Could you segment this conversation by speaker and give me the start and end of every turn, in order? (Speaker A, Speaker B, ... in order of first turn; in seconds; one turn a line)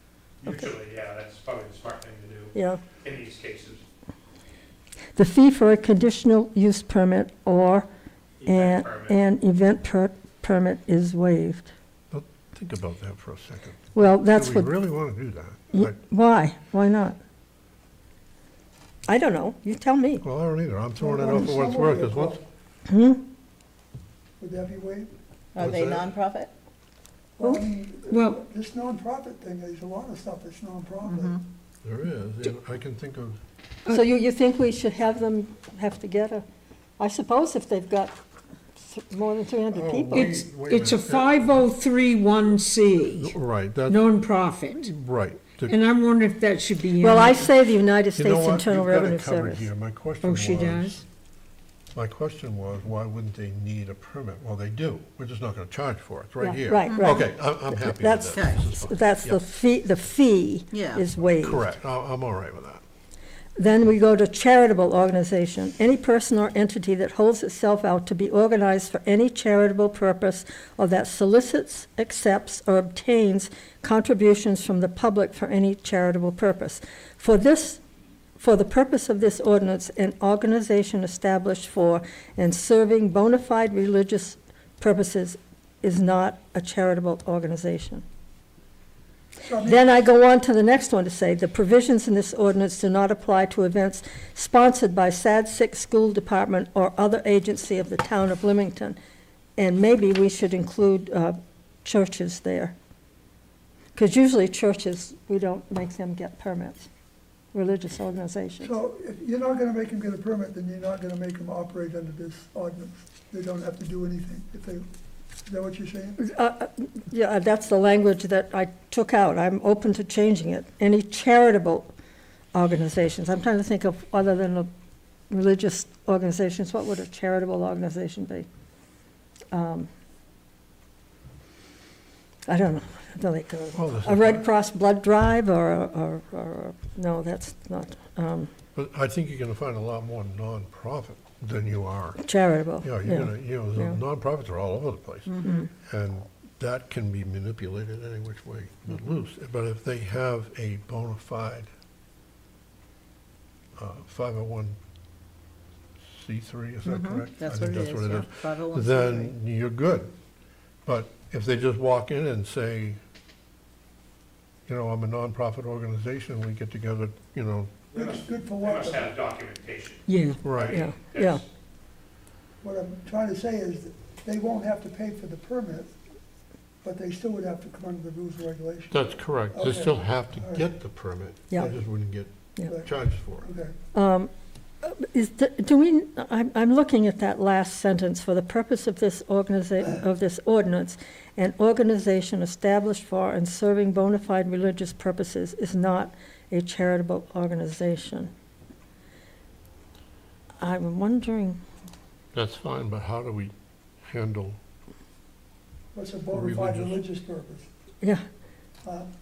Speaker A: 0.4-3.8
Speaker B: 2.5-2.8
Speaker B: 5.2-7.9
Speaker A: 8.4-9.1
Speaker B: 8.4-11.7
Speaker C: 12.1-15.9
Speaker B: 13.9-14.7
Speaker B: 15.7-17.2
Speaker B: 19.1-20.2
Speaker C: 20.2-22.4
Speaker D: 21.0-22.4
Speaker B: 22.9-23.2
Speaker D: 24.4-25.1
Speaker E: 25.5-26.5
Speaker C: 25.6-26.1
Speaker D: 27.4-31.4
Speaker F: 28.1-28.4
Speaker E: 31.1-31.4
Speaker C: 31.8-33.4
Speaker B: 33.9-36.4
Speaker B: 37.0-38.1
Speaker B: 38.8-40.4
Speaker C: 39.7-41.3
Speaker F: 40.1-43.3
Speaker C: 43.1-44.0
Speaker F: 43.9-44.9
Speaker C: 44.8-45.8
Speaker F: 45.7-47.5
Speaker B: 47.0-49.7
Speaker C: 48.1-51.0
Speaker F: 50.2-51.0
Speaker C: 51.9-59.4
Speaker B: 56.4-61.6
Speaker E: 56.8-57.1
Speaker E: 60.7-61.0
Speaker C: 61.4-62.8
Speaker B: 63.6-77.8
Speaker B: 78.4-88.0
Speaker D: 89.4-89.8
Speaker B: 89.6-99.0
Speaker B: 99.6-102.8
Speaker B: 103.9-106.9
Speaker B: 107.5-108.7
Speaker D: 108.6-114.8
Speaker D: 115.5-116.2
Speaker B: 116.2-121.9
Speaker B: 122.5-124.7
Speaker B: 125.3-128.5
Speaker B: 129.5-129.9
Speaker B: 132.5-138.5
Speaker C: 133.7-134.4
Speaker C: 138.7-142.2
Speaker B: 142.2-144.0
Speaker C: 142.8-151.7
Speaker B: 145.4-145.7
Speaker C: 153.8-154.8
Speaker C: 156.0-160.1
Speaker E: 156.8-159.3
Speaker C: 160.8-163.0
Speaker C: 164.7-167.7
Speaker A: 167.9-171.4
Speaker D: 167.9-169.1
Speaker F: 170.1-170.4
Speaker C: 170.4-170.8
Speaker B: 170.7-171.4
Speaker D: 172.6-175.9
Speaker D: 176.8-180.7
Speaker C: 178.9-183.5
Speaker D: 183.4-183.7
Speaker B: 183.9-184.3
Speaker B: 184.8-198.3
Speaker B: 200.6-201.6
Speaker C: 202.3-204.6
Speaker D: 205.9-207.7
Speaker C: 206.3-207.0
Speaker D: 208.8-209.1